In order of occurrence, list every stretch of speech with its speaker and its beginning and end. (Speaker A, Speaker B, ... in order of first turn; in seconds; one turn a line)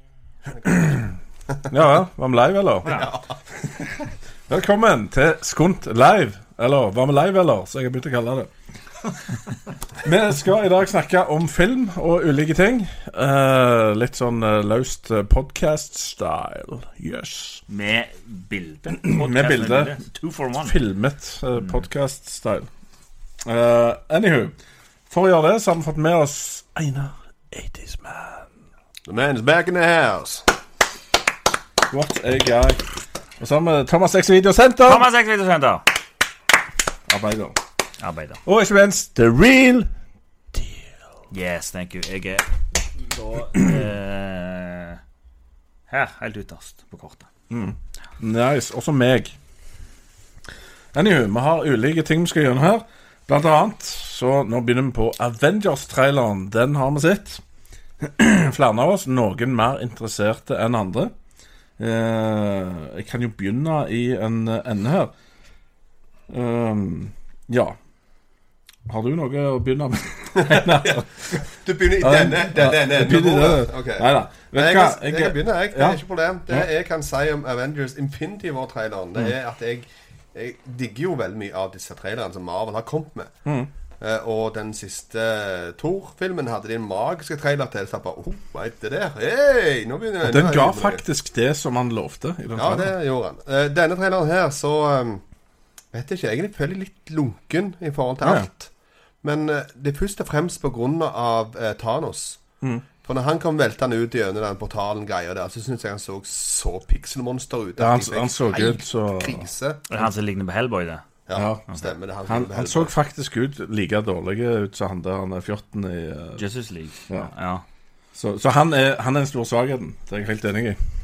Speaker A: 0.6-0.9
Speaker B: 0.7-1.0
Speaker B: 1.7-3.0
Speaker A: 2.9-3.7
Speaker B: 4.5-8.5
Speaker B: 10.0-17.6
Speaker C: 17.7-20.8
Speaker B: 18.9-20.0
Speaker B: 20.6-22.7
Speaker B: 23.4-24.6
Speaker B: 25.1-28.5
Speaker A: 29.1-30.5
Speaker B: 31.9-32.8
Speaker B: 33.4-35.1
Speaker C: 34.8-35.8
Speaker B: 37.1-37.6
Speaker C: 38.0-38.4
Speaker B: 38.5-39.9
Speaker B: 40.5-40.8
Speaker C: 41.3-45.0
Speaker C: 45.9-47.3
Speaker B: 47.5-49.4
Speaker B: 50.9-57.4
Speaker B: 58.0-61.1
Speaker B: 61.8-65.1
Speaker B: 66.3-67.8
Speaker B: 68.9-71.4
Speaker A: 70.3-83.3
Speaker B: 72.0-76.0
Speaker A: 84.0-91.0
Speaker B: 90.2-92.9
Speaker A: 92.5-95.2
Speaker A: 95.9-98.7
Speaker B: 98.2-98.5
Speaker A: 99.2-102.4
Speaker A: 103.0-109.8
Speaker B: 107.8-109.5
Speaker C: 109.9-111.0
Speaker A: 111.3-112.9
Speaker B: 111.3-111.6
Speaker B: 112.3-116.4
Speaker C: 116.4-117.6
Speaker B: 118.1-120.8